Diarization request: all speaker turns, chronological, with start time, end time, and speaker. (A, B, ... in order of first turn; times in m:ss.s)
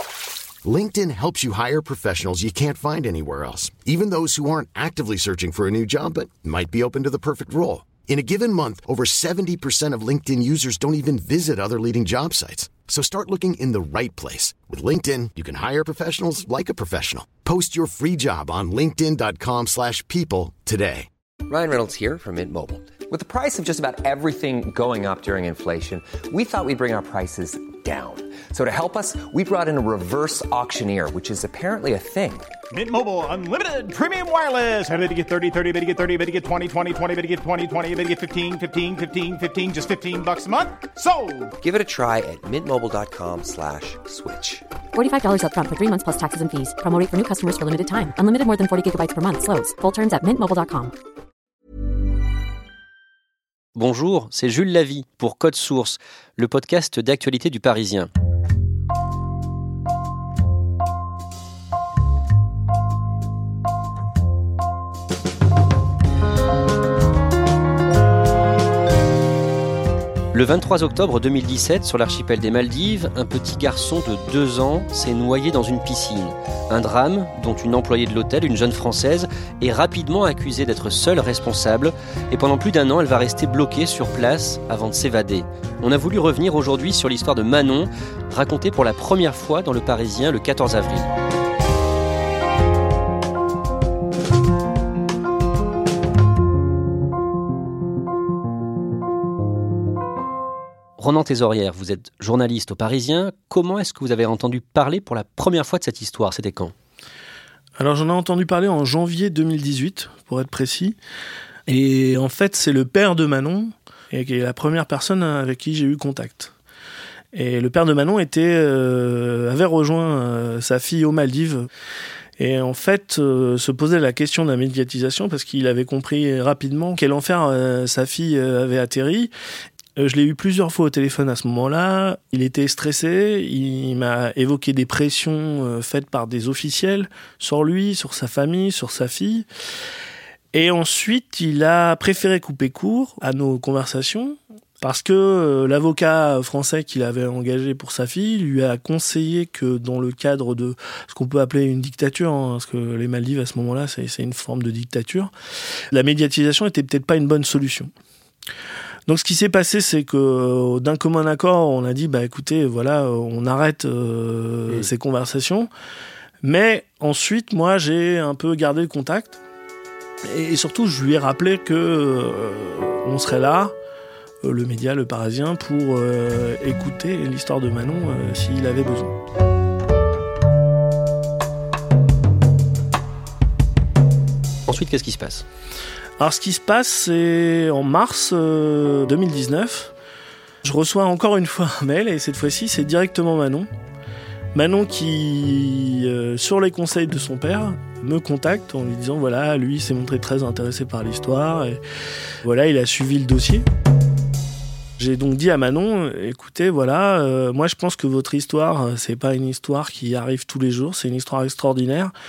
0:00.6-0:21.1 A
0:21.5-0:32.5 B
0:32.7-0:41.6 C
0:41.6-0:44.6 B
0:44.9-0:50.9 D
0:53.7-0:58.1 E
1:10.3-1:31.1 E
1:41.0-1:46.7 E
1:47.8-1:51.0 F
1:51.7-1:56.5 F
1:57.3-2:01.7 F
2:02.4-2:09.3 F
2:10.0-2:19.4 F
2:20.5-2:35.3 F
2:35.9-2:37.9 F
2:39.1-2:45.7 F
2:46.4-2:49.4 F
2:50.2-2:53.7 F
2:54.4-2:59.1 F
3:04.7-3:05.4 E
3:06.2-3:09.9 F
3:10.6-3:13.7 F
3:14.5-3:21.8 F
3:22.4-3:23.6 F
3:25.0-3:32.1 F